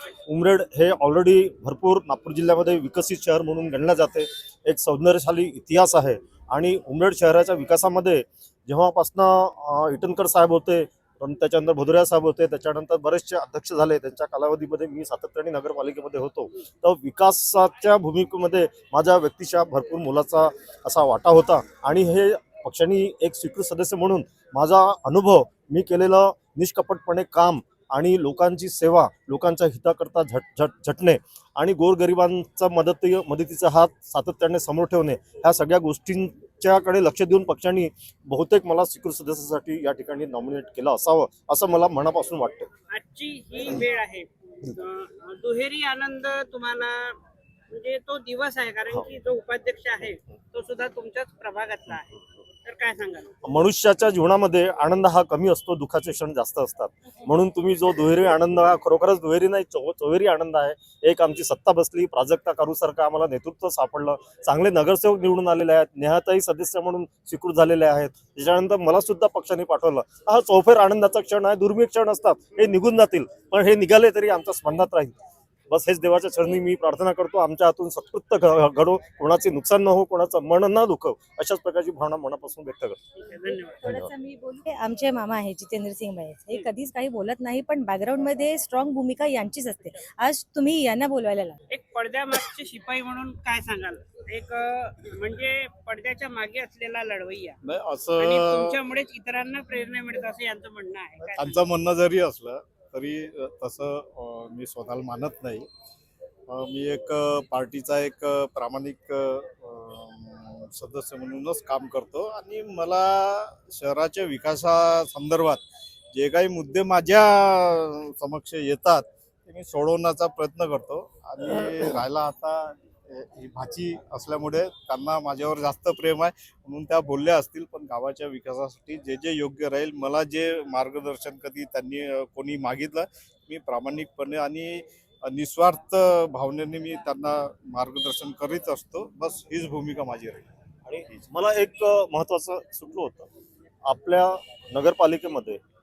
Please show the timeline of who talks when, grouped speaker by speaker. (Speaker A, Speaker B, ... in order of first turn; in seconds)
Speaker A: 0.3-42.7, 53.4-75.1, 75.7-83.0, 83.8-84.1, 140.9-143.3, 143.8-145.6
Speaker B: 42.9-47.2, 47.7-53.3, 83.2-83.8, 91.7-97.6, 98.2-101.6
Speaker C: 83.3-91.6
Speaker D: 97.6-98.8, 101.3-105.7, 106.5-140.5